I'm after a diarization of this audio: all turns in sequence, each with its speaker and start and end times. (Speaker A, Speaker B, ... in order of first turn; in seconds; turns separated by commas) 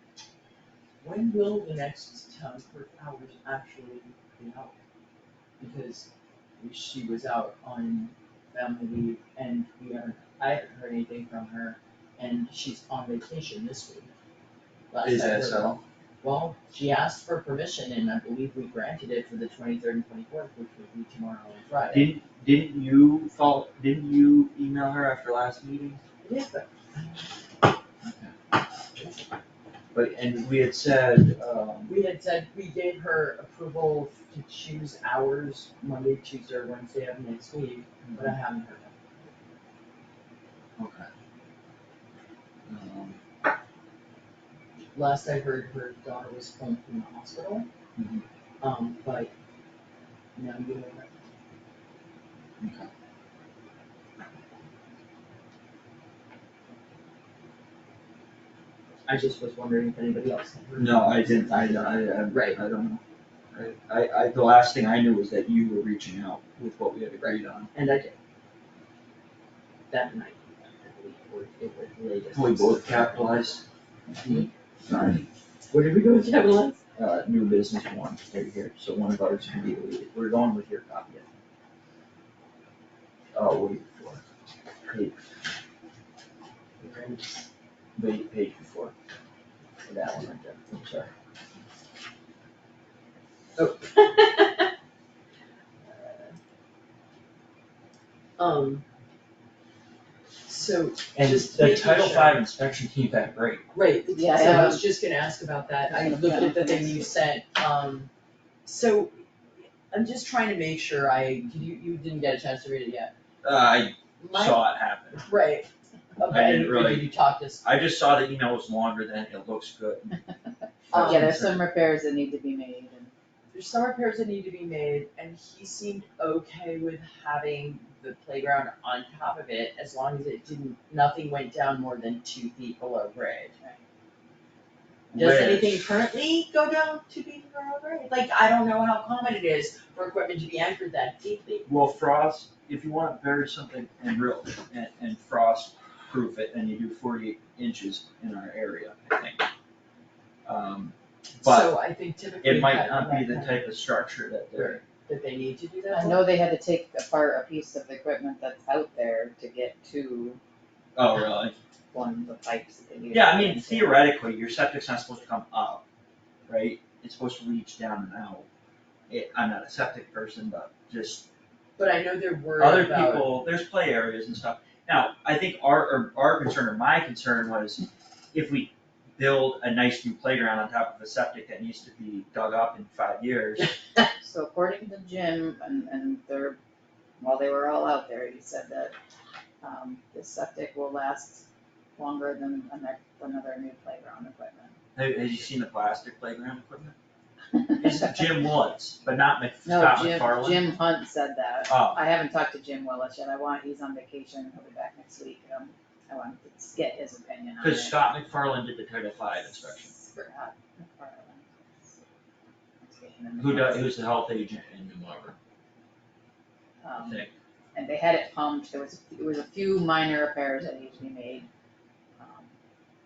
Speaker A: 1.0-4.7, Speaker A: 5.6-6.1, Speaker A: 6.6-14.1, Speaker A: 14.9-22.1, Speaker B: 15.0-15.8, Speaker B: 21.9-26.0, Speaker A: 26.2-27.3, Speaker B: 28.0-28.3, Speaker B: 29.9-31.9, Speaker A: 31.9-39.0, Speaker B: 38.0-38.3, Speaker B: 40.8-41.1, Speaker B: 42.7-43.2, Speaker A: 44.9-47.7, Speaker B: 48.0-48.2, Speaker A: 48.6-49.3, Speaker A: 50.4-51.1, Speaker B: 52.6-52.9, Speaker A: 59.1-62.6, Speaker B: 60.8-63.0, Speaker B: 63.5-67.7, Speaker A: 67.2-68.1, Speaker A: 69.9-73.5, Speaker B: 72.3-75.3, Speaker A: 74.2-74.5, Speaker A: 75.7-76.8, Speaker B: 77.0-81.3, Speaker B: 83.3-84.2, Speaker B: 84.8-85.2, Speaker A: 86.8-87.4, Speaker B: 88.0-88.9, Speaker B: 89.8-91.1, Speaker A: 93.6-94.7, Speaker A: 95.8-96.3, Speaker A: 98.4-98.8, Speaker A: 100.4-102.4, Speaker B: 101.2-103.7, Speaker A: 103.7-108.1, Speaker C: 104.1-104.8, Speaker C: 105.8-107.1, Speaker A: 108.6-109.2, Speaker A: 109.9-113.1, Speaker B: 113.4-115.2, Speaker A: 114.2-114.6, Speaker A: 115.2-117.7, Speaker B: 116.3-117.1, Speaker B: 117.6-120.2, Speaker B: 120.9-121.6, Speaker A: 120.9-121.3, Speaker C: 121.0-123.1, Speaker A: 123.5-133.5, Speaker B: 135.1-135.8, Speaker A: 135.1-141.7, Speaker B: 141.7-149.4, Speaker B: 150.4-151.7, Speaker A: 151.4-153.6, Speaker B: 152.4-154.8, Speaker A: 154.5-156.2, Speaker C: 155.9-160.4, Speaker B: 160.9-161.6, Speaker C: 161.9-163.9, Speaker B: 163.1-165.8, Speaker B: 166.5-168.5, Speaker B: 169.1-171.3, Speaker A: 171.8-173.3, Speaker B: 172.6-183.7, Speaker C: 184.2-186.6, Speaker C: 187.2-188.9, Speaker C: 189.6-194.7, Speaker B: 194.9-196.9, Speaker C: 197.5-198.1, Speaker B: 197.8-200.7, Speaker C: 199.6-208.0, Speaker B: 201.7-202.0, Speaker B: 207.6-209.9, Speaker C: 209.9-212.0, Speaker C: 212.8-213.9, Speaker B: 213.4-215.3, Speaker C: 216.8-221.5, Speaker B: 217.0-217.3, Speaker C: 222.2-222.5